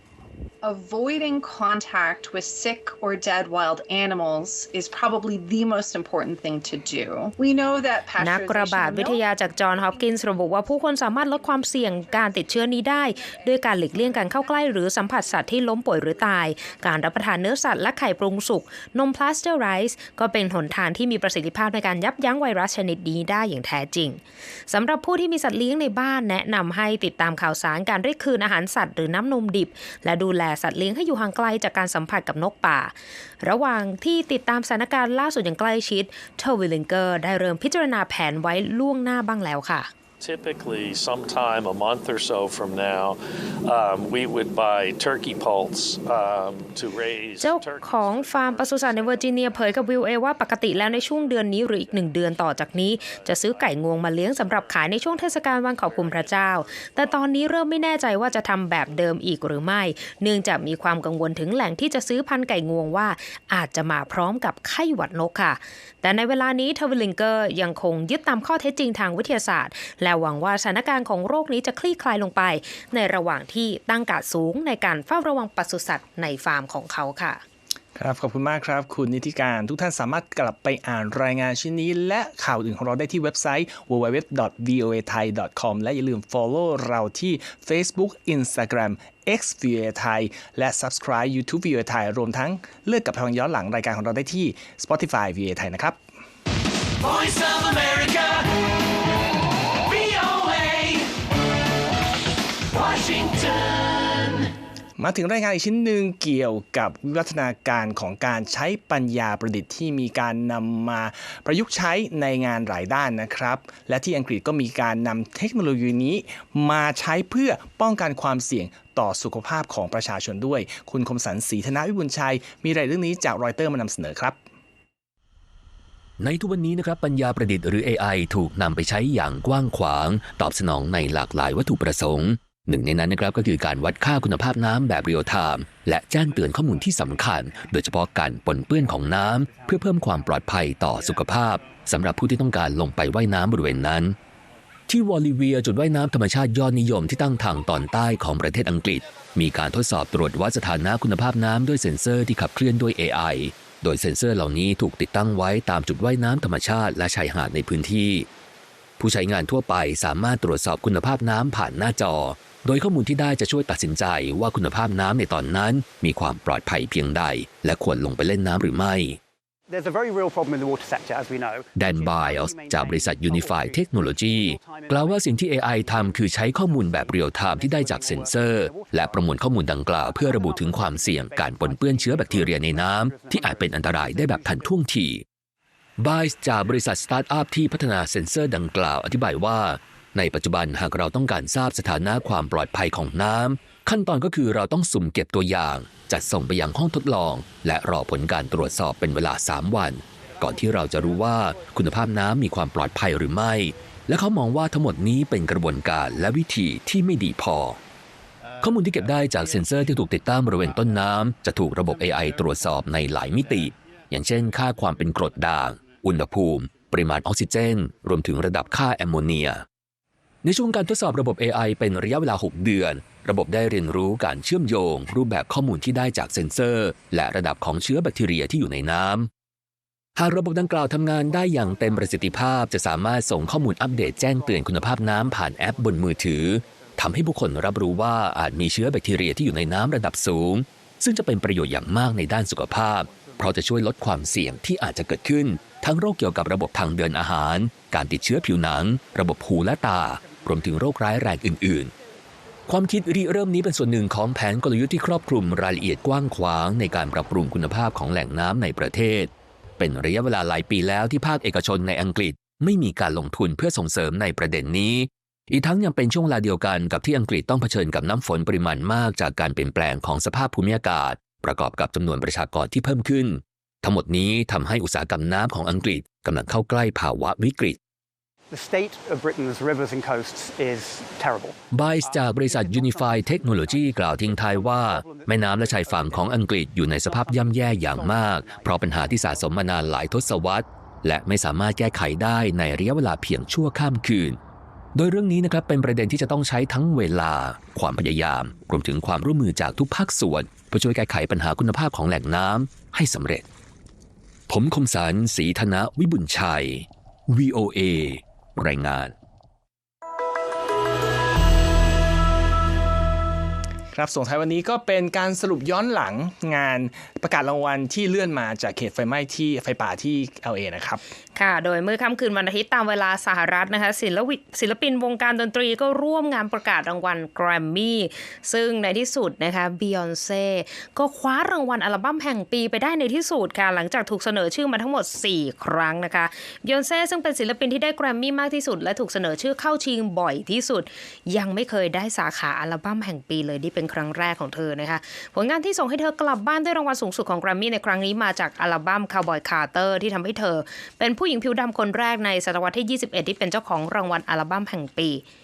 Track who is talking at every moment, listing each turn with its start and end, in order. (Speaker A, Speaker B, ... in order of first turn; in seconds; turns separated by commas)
Speaker A: 0.6-9.2, Speaker B: 8.2-39.9, Speaker C: 40.2-49.9, Speaker B: 47.4-77.4, Speaker C: 50.7-58.0, Speaker D: 78.0-96.0, Speaker E: 97.0-98.6, Speaker E: 99.8-101.1, Speaker E: 102.7-104.5, Speaker D: 105.0-124.4, Speaker F: 126.2-144.2, Speaker G: 136.2-141.2, Speaker F: 144.9-158.3, Speaker F: 159.0-169.2, Speaker G: 169.7-184.9, Speaker F: 171.8-185.2, Speaker F: 186.0-207.8, Speaker F: 208.6-219.6, Speaker F: 220.4-229.3, Speaker F: 230.2-251.9, Speaker G: 230.5-238.2, Speaker G: 242.8-244.6, Speaker G: 245.3-245.8, Speaker G: 249.9-250.9, Speaker F: 252.7-277.8, Speaker G: 278.5-289.9, Speaker F: 281.7-294.4, Speaker F: 294.9-303.4, Speaker F: 304.5-309.1, Speaker D: 313.9-321.0, Speaker B: 321.4-355.2